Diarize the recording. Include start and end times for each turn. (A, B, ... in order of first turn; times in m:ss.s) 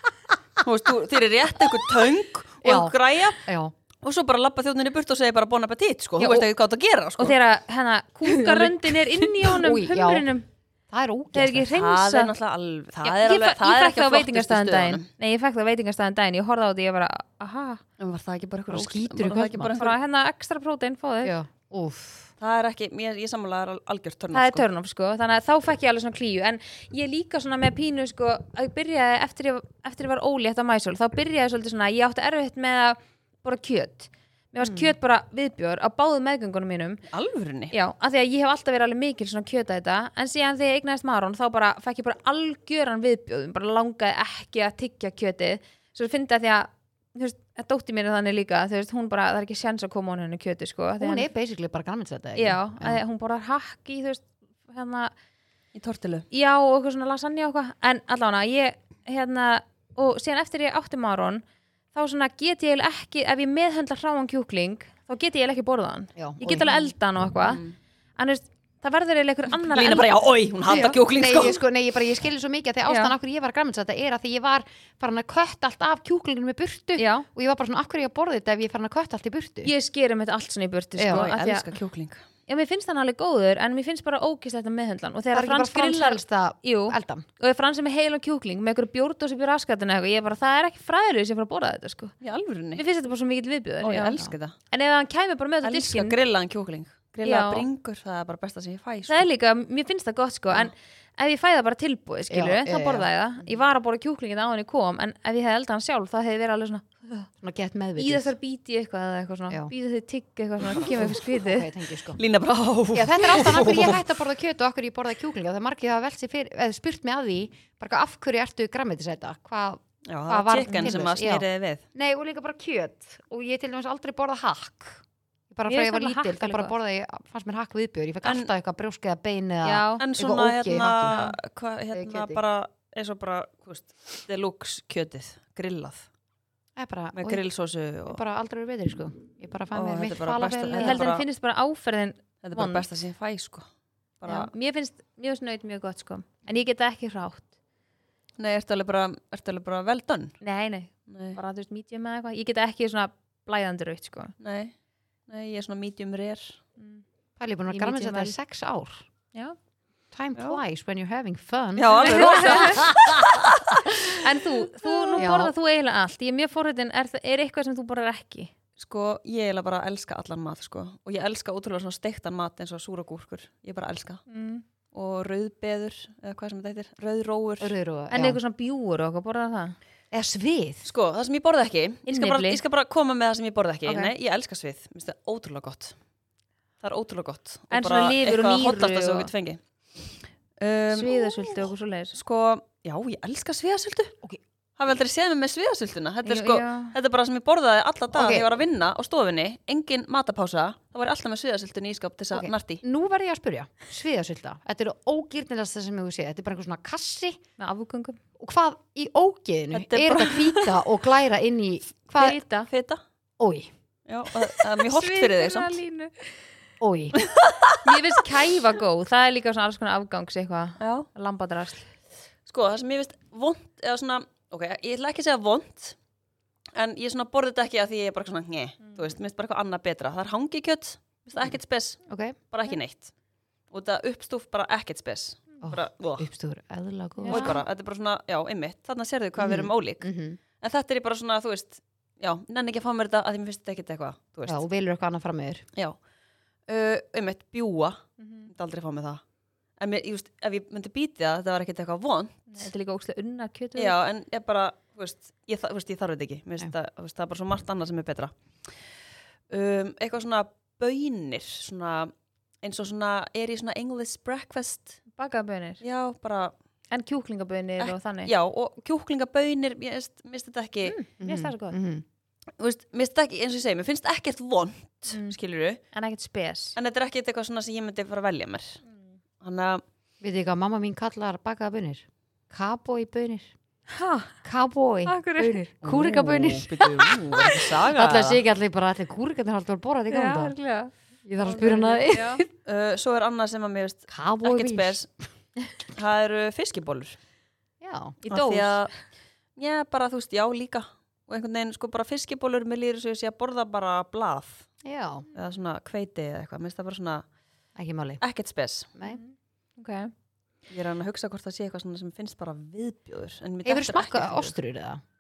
0:00.6-0:03.4 A
0:02.6-0:03.7 B
0:04.0-0:07.4 A
0:06.2-0:06.5 C
0:07.2-0:10.5 C
0:08.3-0:08.7 B
0:09.4-0:10.3 B
0:10.9-0:11.7 B
0:11.3-0:12.3 C
0:11.7-0:15.1 A
0:13.0-0:17.8 C
0:18.0-0:20.0 A
0:18.7-0:19.9 B
0:19.8-0:21.4 C
0:21.2-0:22.3 B
0:22.4-0:24.7 A
0:24.3-0:37.0 C
0:37.1-0:37.7 A
0:37.7-0:51.3 C
0:51.0-0:53.0 B
0:52.4-0:55.1 C
0:55.7-0:56.3 A
0:56.3-1:01.4 C
1:01.9-1:07.6 C
1:06.2-1:06.8 B
1:07.4-1:07.8 A
1:08.2-1:11.0 C
1:09.5-1:11.6 A
1:10.7-1:19.7 B
1:12.9-1:13.1 C
1:17.0-1:17.3 C
1:19.6-1:21.7 C
1:21.0-1:21.2 B
1:21.1-1:22.2 A
1:22.5-1:32.1 C
1:25.3-1:27.3 B
1:32.2-1:32.8 A
1:32.8-1:36.2 C
1:33.8-1:34.5 A
1:35.6-1:39.3 A
1:37.2-1:37.6 C
1:39.1-1:47.3 C
1:42.3-1:43.1 B
1:47.4-1:48.3 B
1:48.0-1:51.7 C
1:50.8-1:52.2 B
1:52.2-1:54.1 A
1:52.9-2:11.2 B
2:00.1-2:01.8 A
2:00.7-2:01.0 C
2:05.7-2:06.7 C
2:08.2-2:08.5 A
2:09.6-2:10.0 C
2:10.0-2:16.1 A
2:11.9-2:12.4 B
2:16.8-2:17.4 B
2:17.2-2:18.2 A
2:18.1-2:21.1 B
2:19.7-2:21.2 A
2:20.8-2:22.8 C
2:22.4-2:23.7 A
2:24.2-2:24.5 A
2:24.3-2:27.5 C
2:28.4-2:30.4 A
2:30.4-2:34.4 C
2:31.1-2:31.4 A
2:34.4-2:34.7 A
2:35.3-2:36.6 A
2:37.4-2:39.1 B
2:37.7-2:38.4 C
2:40.1-2:43.5 B
2:41.8-2:44.1 A
2:41.9-2:42.9 C
2:44.2-2:48.5 C
2:45.2-2:45.5 B
2:48.8-2:54.2 A
2:54.3-2:54.6 C
2:54.9-2:57.7 A
2:57.6-2:58.4 B
2:58.1-2:59.8 C
3:00.1-3:00.9 B
3:00.8-3:06.0 A
3:02.1-3:02.6 C
3:03.9-3:04.1 C
3:06.8-3:09.6 A
3:07.7-3:09.3 C
3:10.6-3:14.2 A
3:10.9-3:12.2 C
3:14.8-3:22.8 A
3:16.2-3:17.0 C
3:18.1-3:18.6 B
3:22.3-3:27.4 B
3:27.6-3:28.2 C
3:28.4-3:32.4 B
3:29.7-3:30.8 A
3:32.2-3:32.7 C
3:32.7-3:33.0 A
3:33.4-3:33.7 B
3:34.1-3:35.8 A
3:34.8-3:36.4 C
3:36.8-3:37.2 B
3:37.2-3:38.0 A
3:37.8-3:41.8 C
3:40.8-3:41.1 A
3:42.5-3:46.0 A
3:46.8-3:53.1 A
3:52.1-3:52.4 B
3:53.7-3:56.3 A
3:55.6-3:57.6 B
3:57.2-3:57.6 C
3:57.3-4:00.1 A
3:59.4-4:00.4 B
4:00.6-4:04.6 A
4:04.5-4:05.6 B
4:06.7-4:09.2 A
4:08.2-4:08.5 C
4:09.8-4:12.6 A
4:12.5-4:14.0 C
4:13.8-4:18.7 A
4:19.5-4:25.0 A
4:25.2-4:25.8 C
4:25.8-4:26.5 A
4:26.9-4:28.3 C
4:27.8-4:31.0 A
4:30.8-4:31.8 C
4:31.2-4:32.0 B
4:32.6-4:35.8 A
4:35.9-4:36.8 C
4:36.8-4:38.8 A
4:39.4-4:39.8 A
4:40.2-4:43.5 B
4:43.9-4:44.4 C
4:44.4-4:50.5 B
4:45.1-4:45.7 C
4:45.8-4:48.4 A
4:50.1-4:52.4 C
4:51.2-4:52.5 B
4:52.6-4:55.1 A
4:54.1-4:55.0 B
4:55.9-4:57.2 A
4:57.8-4:58.8 B
4:58.3-4:58.9 A
4:59.6-5:04.7 A
5:04.8-5:05.2 B
5:05.4-5:07.2 A
5:07.8-5:08.2 B
5:08.2-5:08.9 A
5:09.0-5:10.1 C
5:10.7-5:14.5 A
5:13.6-5:15.0 B